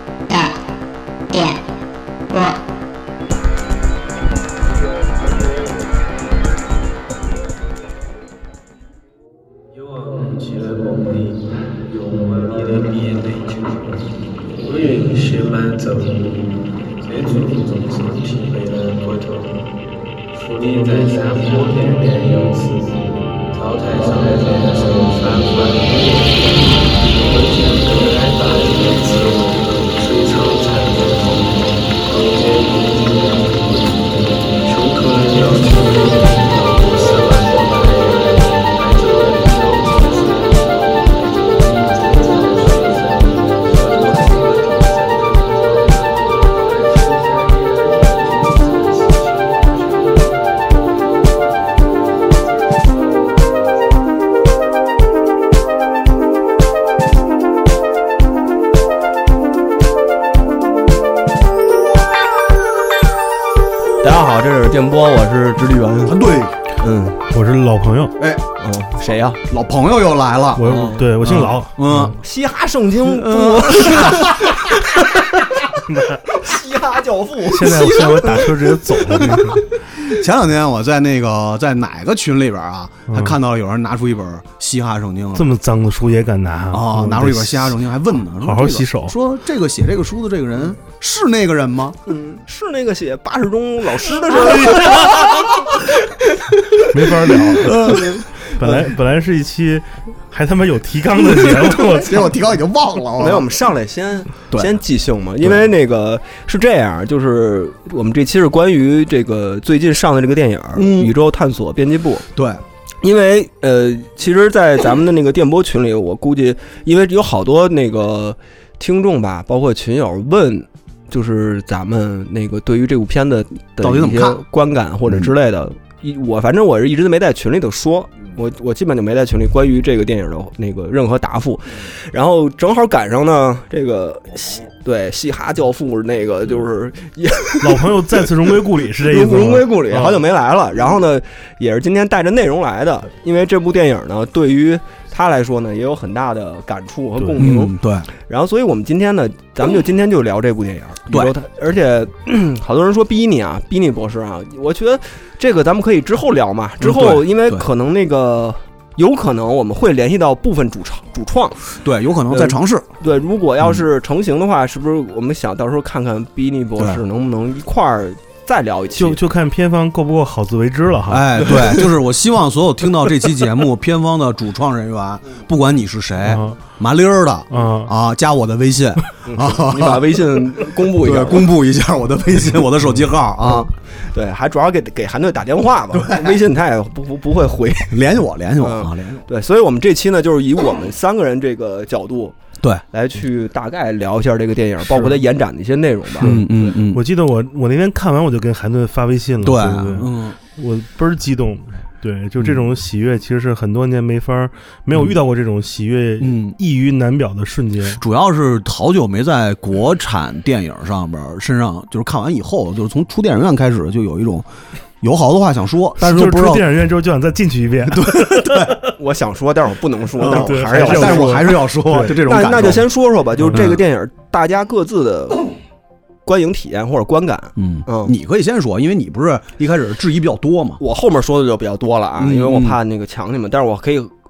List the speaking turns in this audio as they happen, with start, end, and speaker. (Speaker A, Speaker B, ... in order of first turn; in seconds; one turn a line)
Speaker A: 5.0-5.7
Speaker A: 9.7-19.7
Speaker A: 20.3-54.0
Speaker B: 64.0-66.2
Speaker C: 66.1-66.6
Speaker B: 66.8-67.2
Speaker D: 67.3-68.2
Speaker C: 68.2-68.4
Speaker B: 68.6-69.4
Speaker C: 69.5-72.2
Speaker D: 70.6-72.2
Speaker B: 70.7-71.0
Speaker B: 72.2-78.5
Speaker C: 73.0-74.7
Speaker D: 75.9-76.2
Speaker D: 77.5-79.7
Speaker C: 77.7-78.5
Speaker C: 79.1-85.5
Speaker D: 83.1-83.4
Speaker D: 85.3-87.8
Speaker C: 86.7-92.0
Speaker D: 88.4-89.2
Speaker B: 92.1-96.1
Speaker D: 94.7-95.2
Speaker C: 94.9-95.5
Speaker D: 96.9-102.3
Speaker B: 97.5-98.8
Speaker C: 97.5-98.2
Speaker C: 101.4-103.5
Speaker B: 103.2-112.3
Speaker C: 110.8-111.1
Speaker C: 112.3-112.6
Speaker B: 113.0-137.9
Speaker C: 123.8-124.4
Speaker D: 137.6-140.2
Speaker B: 139.0-161.7
Speaker D: 147.2-147.4
Speaker C: 147.4-148.1
Speaker C: 156.8-157.6
Speaker C: 161.8-162.9
Speaker B: 162.3-169.2
Speaker D: 169.0-171.7
Speaker C: 171.1-180.0
Speaker D: 176.2-176.6
Speaker D: 177.5-177.9
Speaker B: 179.3-181.5
Speaker C: 181.0-183.7
Speaker B: 183.4-188.0
Speaker C: 185.9-186.4
Speaker C: 187.9-189.2
Speaker B: 188.6-192.3
Speaker B: 192.9-196.4
Speaker C: 196.2-197.0
Speaker D: 196.2-208.0
Speaker C: 199.4-200.4
Speaker C: 206.2-206.6
Speaker C: 207.9-214.5
Speaker C: 215.0-216.7
Speaker D: 216.0-218.9
Speaker C: 217.9-218.8
Speaker B: 218.9-221.5
Speaker C: 220.2-222.9
Speaker D: 220.2-222.2
Speaker B: 222.1-225.5
Speaker C: 223.5-223.8
Speaker B: 226.2-228.1
Speaker C: 227.6-230.8
Speaker B: 230.8-234.1
Speaker C: 232.2-232.8